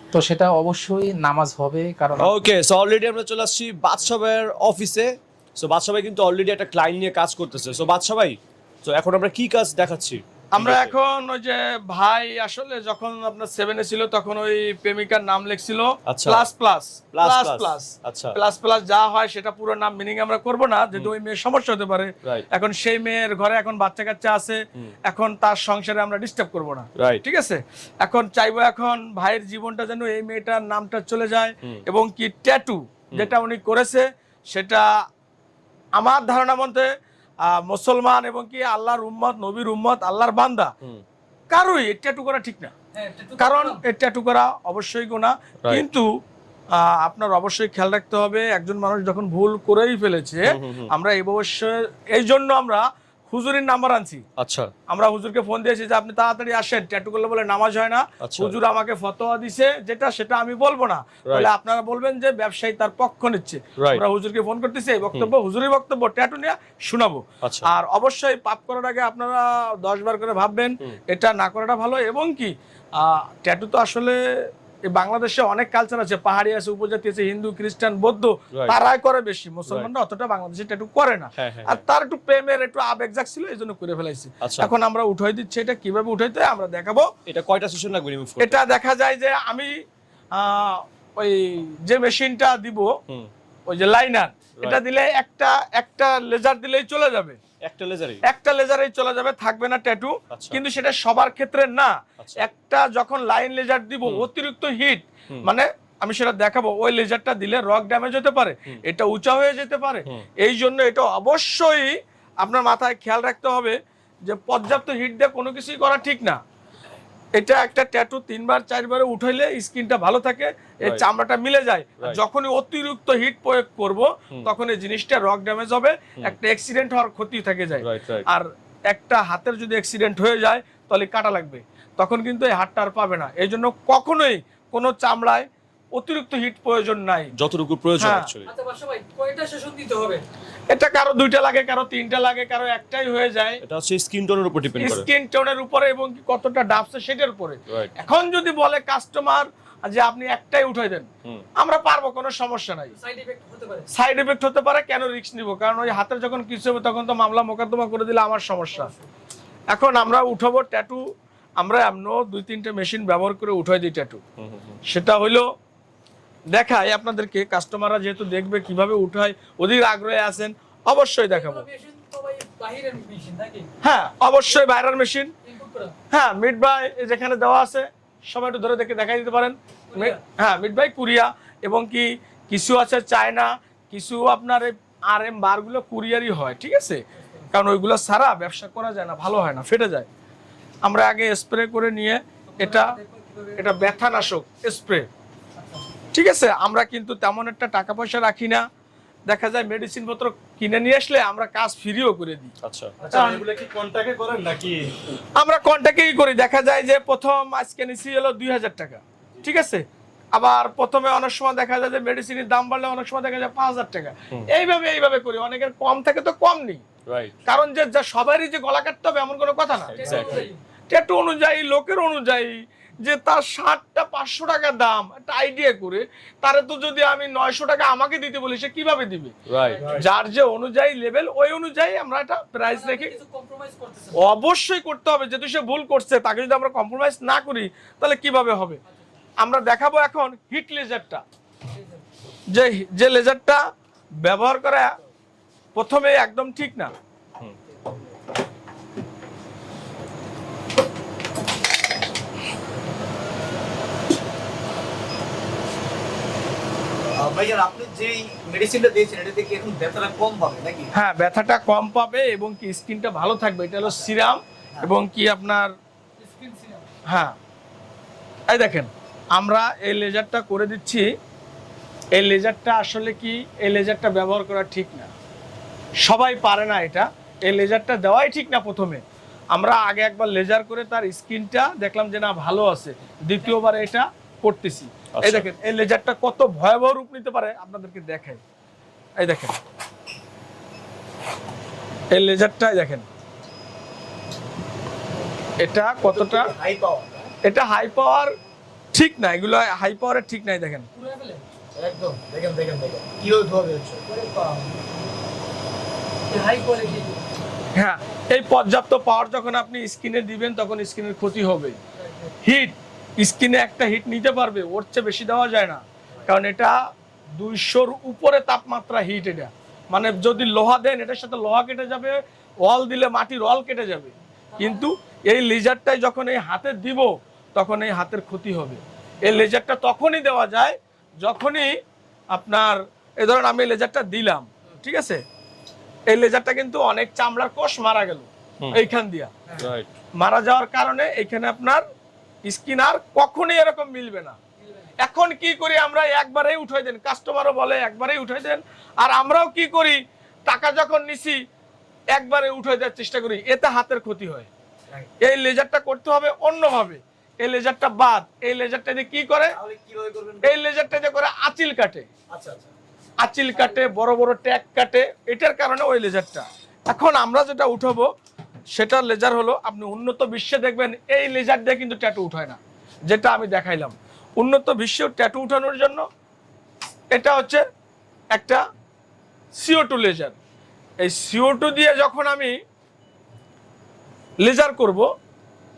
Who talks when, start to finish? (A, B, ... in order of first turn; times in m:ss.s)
0:00.1-0:02.3 A
0:02.2-0:10.9 B
0:10.5-0:34.9 C
0:16.1-0:16.5 B
0:17.1-0:18.4 B
0:27.0-0:27.2 B
0:36.0-0:36.9 C
0:37.4-0:40.7 C
0:41.5-0:42.7 C
0:42.9-0:43.8 D
0:43.4-0:46.1 C
0:46.7-0:54.2 C
0:50.5-0:50.9 B
0:54.4-0:54.7 B
0:54.9-1:14.2 C
0:58.2-0:58.6 B
1:03.8-1:04.0 B
1:07.4-1:07.7 B
1:14.9-1:27.1 C
1:18.5-1:18.8 B
1:21.4-1:21.8 B
1:24.4-1:24.7 B
1:27.3-1:28.6 B
1:28.4-1:29.7 C
1:30.3-1:32.9 C
1:33.7-1:37.4 C
1:37.6-1:38.2 B
1:38.3-1:56.4 C
1:40.3-1:40.6 B
1:57.4-2:17.3 C
2:07.8-2:08.3 B
2:17.4-2:18.5 B
2:18.0-2:18.3 C
2:18.5-2:20.2 D
2:20.7-2:23.6 C
2:23.6-2:25.1 B
2:24.8-2:32.9 C
2:32.9-2:33.9 D
2:33.9-2:38.9 C
2:38.7-2:39.1 D
2:39.7-2:41.0 C
2:41.6-2:44.2 C
2:44.4-2:44.8 B
2:44.9-2:45.5 C
2:46.5-2:51.6 C
2:51.3-2:53.7 D
2:53.8-2:55.3 C
2:55.4-2:55.9 D
2:56.1-3:10.1 C
2:59.9-3:00.2 D
3:07.1-3:07.5 D
3:10.8-3:13.0 C
3:12.5-3:14.3 D
3:13.6-3:15.1 C
3:15.6-3:15.9 D
3:16.1-3:18.6 C
3:19.3-3:22.5 C
3:22.6-3:23.0 B
3:23.0-3:23.3 D
3:23.0-3:24.9 E
3:23.1-3:23.4 C
3:25.4-3:36.8 C
3:37.1-3:37.4 B
3:37.5-3:49.4 C
3:39.9-3:40.5 B
3:39.9-3:40.6 D
3:49.5-3:50.0 B
3:49.6-3:50.0 D
3:49.9-3:53.2 C
3:52.7-3:54.2 D
3:54.2-3:58.8 C
3:59.4-4:01.2 C
4:01.7-4:02.0 D
4:02.5-4:03.6 C
4:04.2-4:05.0 C
4:05.8-4:06.9 C
4:17.2-4:20.9 E
4:20.9-4:25.7 C
4:26.2-4:26.9 D
4:27.1-4:27.4 C
4:28.5-4:31.1 C
4:32.1-4:35.1 C
4:36.0-4:39.0 C
4:39.5-4:48.4 C
4:45.1-4:45.5 B
4:49.2-4:49.6 C
4:52.1-4:53.1 C
4:55.6-4:56.5 C
4:56.1-4:57.3 E
4:57.4-4:58.3 C
4:58.9-5:00.9 C
5:01.0-5:01.4 D
5:01.8-5:04.0 E
5:04.1-5:04.8 D
5:06.3-5:07.2 D
5:07.8-5:11.8 C
5:12.0-5:12.3 D
5:12.4-5:16.8 C
5:17.4-5:31.8 C
5:24.5-5:24.9 D
5:32.3-5:35.2 C
5:36.1-5:39.3 C
5:39.6-5:39.9 B
5:40.2-5:41.8 C
5:42.5-5:44.4 C
5:45.0-5:51.4 C
5:52.1-5:54.5 C
5:55.2-5:59.6 C
5:59.5-6:00.6 E
6:00.4-6:02.1 C
6:02.3-6:02.7 E
6:03.2-6:08.1 C
6:08.7-6:16.0 C
6:17.1-6:17.6 C
6:18.3-6:18.6 C
6:19.6-6:20.4 C
6:21.0-6:22.6 C
6:24.4-6:25.1 C